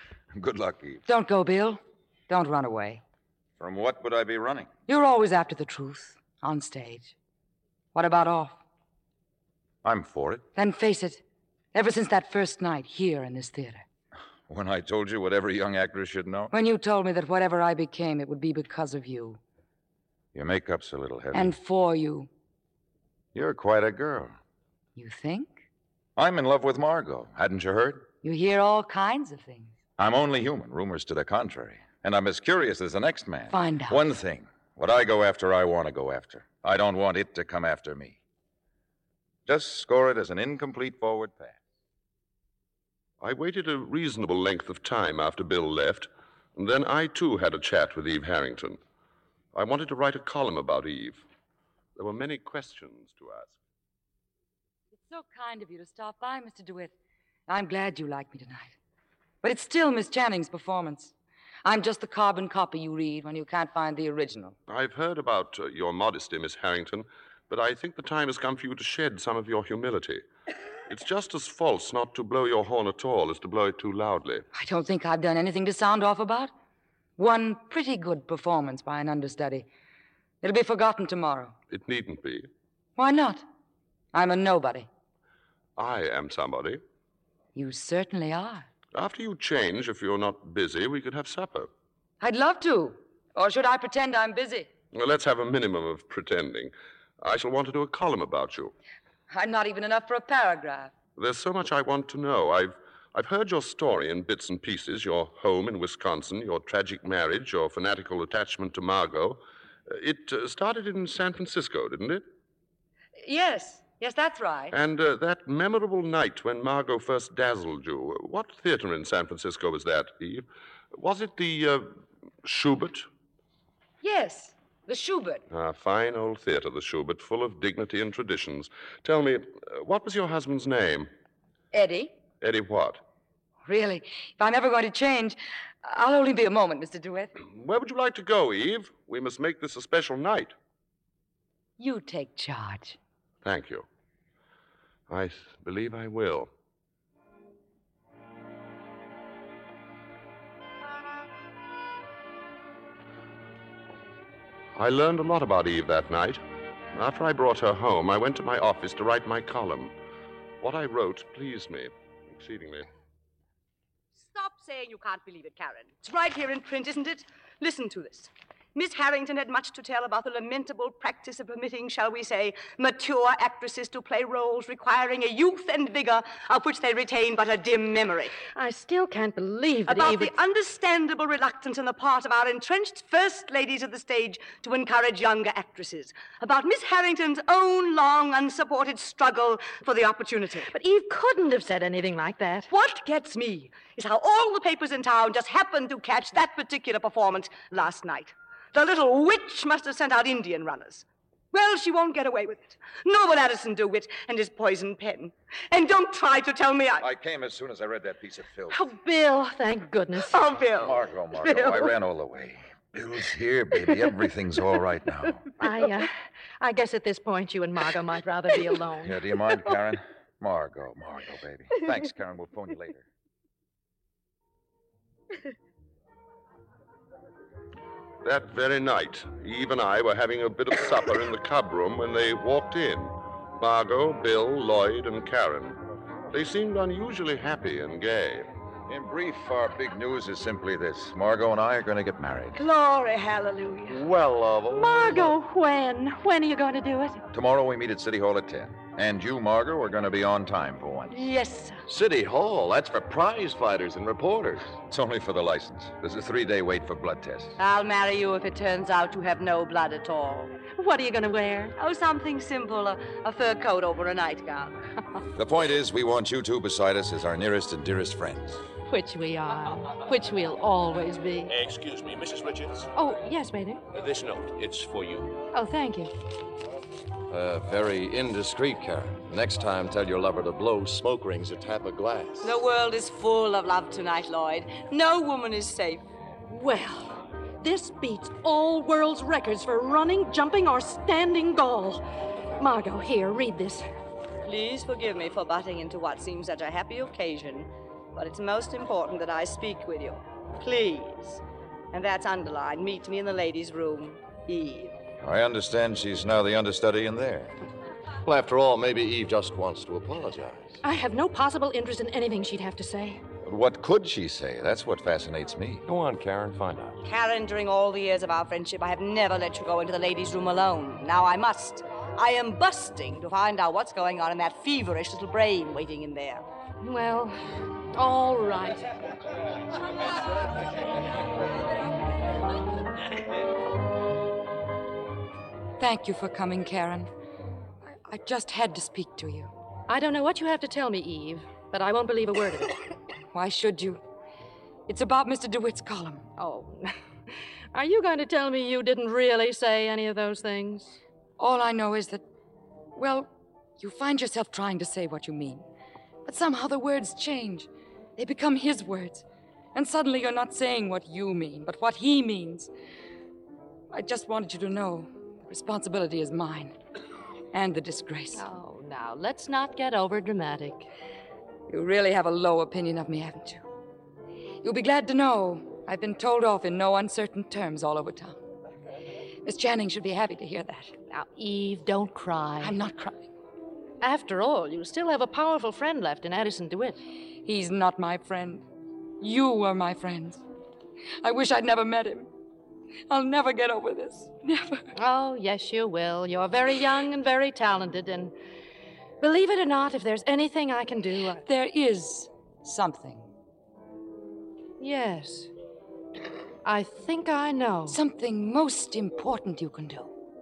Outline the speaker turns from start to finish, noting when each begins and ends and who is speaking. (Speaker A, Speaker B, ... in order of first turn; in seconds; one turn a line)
Speaker A: 0.3-1.0
Speaker B: 1.1-3.0
Speaker A: 3.6-4.7
Speaker B: 4.9-7.1
Speaker B: 7.9-8.6
Speaker A: 9.8-10.5
Speaker B: 10.6-11.2
Speaker B: 11.7-13.8
Speaker A: 14.5-16.5
Speaker B: 16.5-19.4
Speaker A: 20.3-21.5
Speaker B: 21.3-22.3
Speaker A: 23.3-24.4
Speaker B: 25.0-25.6
Speaker A: 26.2-28.1
Speaker B: 28.2-29.8
Speaker A: 30.0-38.2
Speaker B: 33.5-34.0
Speaker A: 39.5-41.6
Speaker C: 43.2-48.8
Speaker C: 49.5-51.2
Speaker C: 52.0-53.6
Speaker B: 54.9-56.9
Speaker B: 57.5-58.7
Speaker B: 59.4-64.5
Speaker C: 64.7-70.2
Speaker C: 70.9-74.5
Speaker B: 74.5-76.5
Speaker B: 77.2-79.7
Speaker B: 80.4-81.6
Speaker C: 81.7-82.5
Speaker B: 83.0-83.5
Speaker B: 84.1-84.9
Speaker C: 85.8-86.8
Speaker B: 87.5-88.7
Speaker C: 88.9-91.7
Speaker B: 92.2-94.7
Speaker C: 94.9-98.7
Speaker B: 99.3-101.0
Speaker C: 101.2-112.2
Speaker B: 113.2-114.7
Speaker C: 114.7-123.1
Speaker B: 124.0-125.4
Speaker C: 125.5-131.1
Speaker B: 131.7-132.2
Speaker C: 132.4-133.0
Speaker B: 133.7-137.3
Speaker C: 137.4-140.6
Speaker B: 141.8-143.0
Speaker C: 143.4-143.9
Speaker C: 145.1-146.5
Speaker C: 154.8-156.4
Speaker C: 156.9-159.9
Speaker C: 160.6-162.9
Speaker D: 164.2-178.3
Speaker E: 178.6-180.3
Speaker D: 179.9-190.7
Speaker E: 190.7-192.7
Speaker D: 192.7-207.1
Speaker A: 207.0-208.8
Speaker E: 208.7-210.4
Speaker D: 210.3-211.0
Speaker A: 210.8-215.5
Speaker E: 215.6-219.2
Speaker A: 219.0-223.1
Speaker C: 228.2-235.8
Speaker C: 236.3-238.5
Speaker A: 238.9-242.6
Speaker D: 242.5-244.0
Speaker F: 243.9-245.4
Speaker E: 244.7-247.2
Speaker A: 247.3-251.2
Speaker E: 251.1-251.8
Speaker F: 251.9-254.7
Speaker A: 254.9-257.6
Speaker D: 257.6-260.5
Speaker E: 260.8-261.8
Speaker D: 261.8-264.8
Speaker A: 265.4-268.6
Speaker E: 268.9-271.6
Speaker G: 271.5-272.9
Speaker E: 272.9-273.8
Speaker G: 273.9-275.3
Speaker E: 275.5-276.1
Speaker F: 277.3-282.6
Speaker D: 282.4-286.0
Speaker E: 286.5-292.0
Speaker E: 292.6-293.9
Speaker D: 294.4-305.0
Speaker A: 305.2-307.5
Speaker F: 308.2-310.8
Speaker E: 310.8-313.2
Speaker A: 313.4-315.8
Speaker F: 315.9-317.0
Speaker D: 317.0-326.5
Speaker E: 326.8-327.4
Speaker E: 327.9-328.9
Speaker B: 335.8-337.1
Speaker B: 338.0-339.5
Speaker E: 339.9-342.8
Speaker B: 343.3-344.0
Speaker B: 344.9-346.3
Speaker E: 346.4-346.9
Speaker E: 347.7-351.0
Speaker B: 351.4-352.2
Speaker B: 352.9-355.6
Speaker B: 356.2-362.7
Speaker B: 363.9-366.8
Speaker B: 367.5-368.5
Speaker E: 368.3-370.9
Speaker B: 371.7-373.6
Speaker B: 374.6-378.4
Speaker B: 379.4-380.9
Speaker E: 381.1-382.7
Speaker B: 382.6-383.2
Speaker E: 384.0-387.0
Speaker B: 387.4-388.6
Speaker B: 389.2-390.4
Speaker B: 391.2-392.3
Speaker B: 393.1-394.9
Speaker E: 394.9-398.4
Speaker E: 399.2-401.4
Speaker B: 401.4-403.3
Speaker E: 404.8-405.5
Speaker E: 406.6-408.0
Speaker B: 407.9-410.1